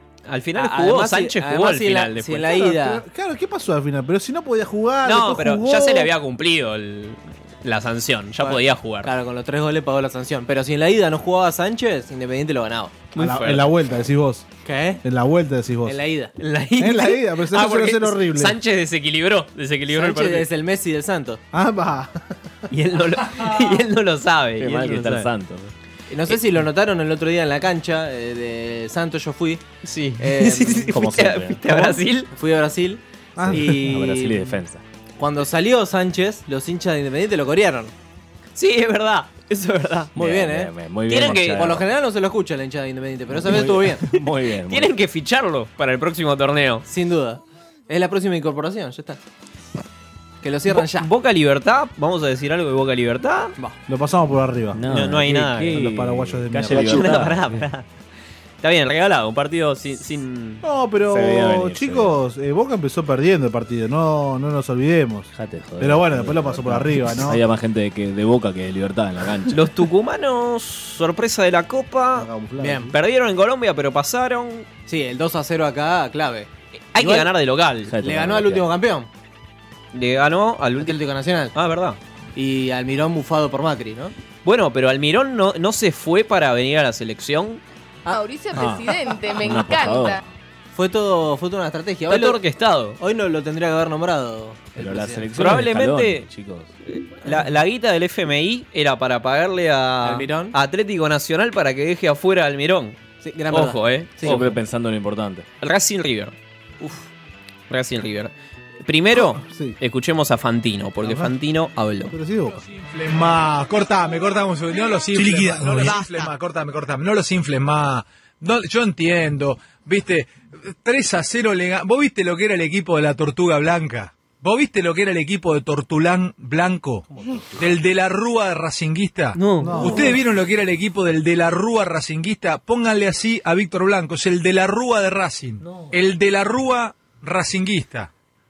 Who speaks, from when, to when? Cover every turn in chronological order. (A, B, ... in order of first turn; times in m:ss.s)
0:00.3-0:02.5 A
0:00.6-0:03.0 B
0:02.4-0:06.1 C
0:05.0-0:09.1 A
0:08.4-0:13.1 B
0:13.1-0:13.7 A
0:13.2-0:14.5 C
0:14.6-0:15.0 B
0:15.0-0:16.0 C
0:15.8-0:16.3 B
0:16.4-0:20.5 A
0:16.8-0:18.6 C
0:19.9-0:21.4 B
0:21.5-0:22.3 C
0:22.7-0:25.3 A
0:24.6-0:25.7 D
0:26.1-0:29.6 B
0:29.8-0:32.3 A
0:30.2-0:30.9 B
0:30.9-0:31.6 D
0:31.7-0:34.6 B
0:33.4-0:33.7 C
0:33.5-0:34.8 D
0:35.2-0:37.9 B
0:38.6-0:40.2 A
0:40.2-0:40.7 B
0:40.2-0:41.9 D
0:41.1-0:41.7 A
0:41.2-0:44.0 B
0:43.3-0:44.9 D
0:44.1-0:46.8 A
0:46.9-0:49.2 B
0:50.4-0:51.1 B
0:50.7-0:53.6 A
0:53.9-0:54.8 C
0:54.7-0:57.5 D
0:54.9-0:55.8 A
0:55.7-0:57.3 C
0:56.7-0:57.9 A
0:58.6-1:00.6 A
1:00.6-1:07.4 C
1:01.1-1:02.2 D
1:05.3-1:09.7 D
1:09.5-1:12.3 A
1:12.1-1:12.9 C
1:12.6-1:12.9 B
1:12.9-1:14.7 A
1:14.9-1:17.3 B
1:16.9-1:17.9 A
1:17.9-1:18.7 D
1:18.0-1:19.1 B
1:19.9-1:21.0 A
1:20.8-1:21.5 B
1:21.5-1:22.0 A
1:22.4-1:24.1 B
1:24.4-1:27.6 A
1:28.1-1:30.2 E
1:28.5-1:30.2 D
1:30.7-1:32.4 B
1:32.1-1:33.0 A
1:33.0-1:35.3 B
1:34.8-1:36.7 D
1:35.4-1:36.3 A
1:36.9-1:43.0 A
1:40.0-1:40.6 B
1:43.2-1:44.4 B
1:43.5-1:44.6 A
1:44.2-1:45.5 D
1:45.6-1:46.4 A
1:47.7-1:52.2 A
1:49.1-1:49.8 C
1:51.0-1:51.4 C
1:52.1-1:54.2 C
1:52.7-2:18.1 F
1:55.3-1:56.3 C
2:09.4-2:10.1 A
2:09.6-2:10.1 C